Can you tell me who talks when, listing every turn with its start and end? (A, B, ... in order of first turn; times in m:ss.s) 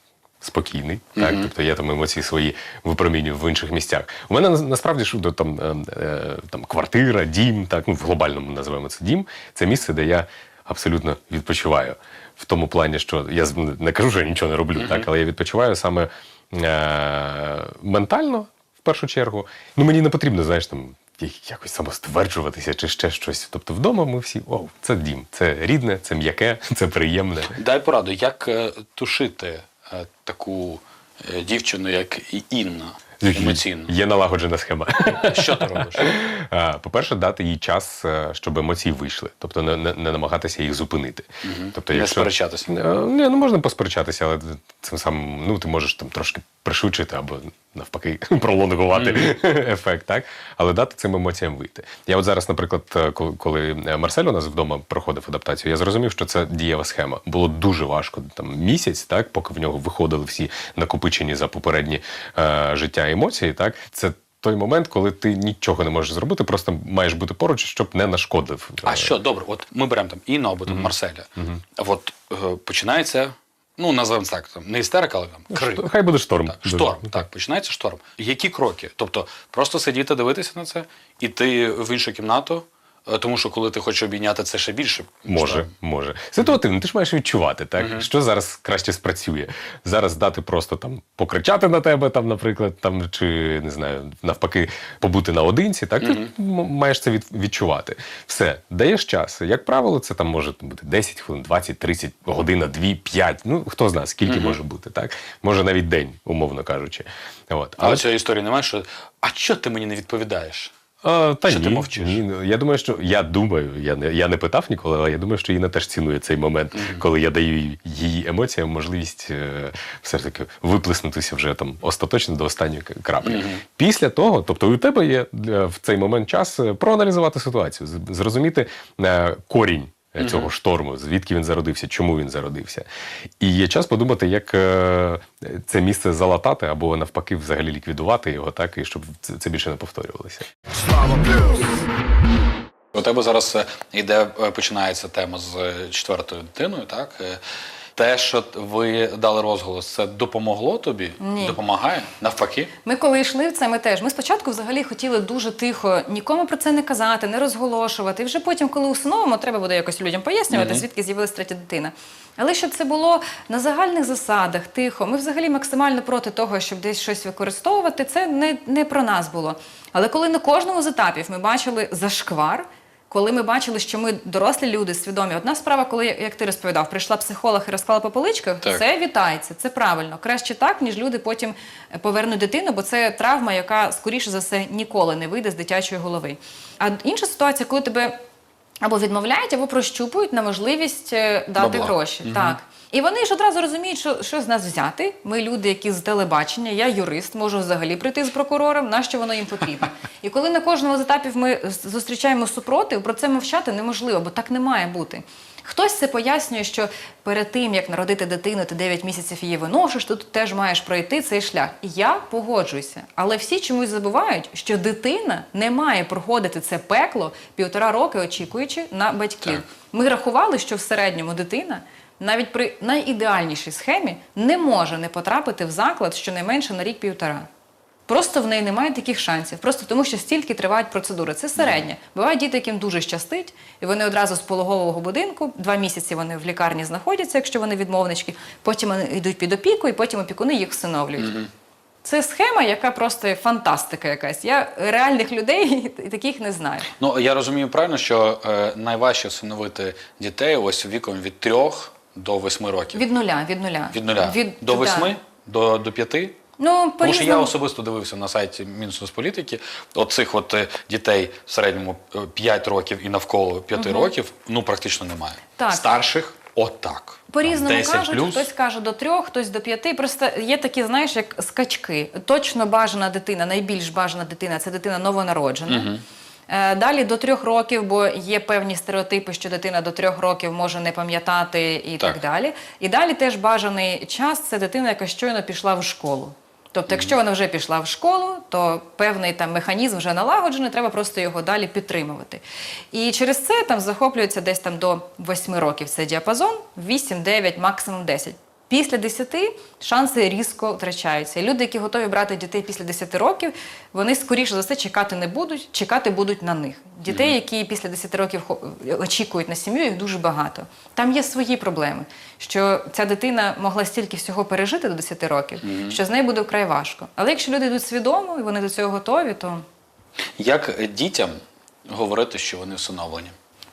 0:00.4-0:27.6 A
0:01.2-0:01.5 B
0:14.8-0:15.1 B
0:27.6-0:33.9 B
0:33.2-1:09.1 A
0:35.1-0:36.1 B
0:41.4-0:42.8 B
0:48.9-0:49.3 B
1:08.8-1:15.9 B
1:10.7-1:11.6 A
1:15.5-1:17.2 A
1:16.4-1:25.7 B
1:25.2-1:48.1 A
1:27.8-1:28.1 B
1:36.0-1:36.3 B
1:44.2-1:44.6 B
1:47.8-1:50.7 B
1:51.0-2:12.8 A
1:51.4-1:52.2 B
1:56.8-1:57.0 B
2:03.2-2:03.6 B
2:10.2-2:10.5 B
2:13.4-2:20.5 A
2:20.9-2:21.7 C
2:22.9-2:27.4 B
2:28.0-2:32.7 B
2:31.2-2:31.6 C
2:32.8-3:08.2 C
2:40.5-2:40.8 B
3:08.8-3:47.5 C
3:11.6-3:12.6 B
3:48.1-4:01.4 C
4:01.2-4:01.5 B
4:02.0-4:06.9 C
4:07.0-4:13.0 B
4:12.9-4:15.1 C
4:13.9-4:16.4 B
4:16.6-4:17.5 C
4:17.0-4:28.5 B
4:23.8-4:24.1 C
4:25.6-4:25.9 C
4:27.3-4:35.9 C
4:35.7-4:36.0 B
4:36.5-5:19.6 C
5:07.1-5:07.3 B
5:15.6-5:16.0 B
5:20.4-5:23.3 B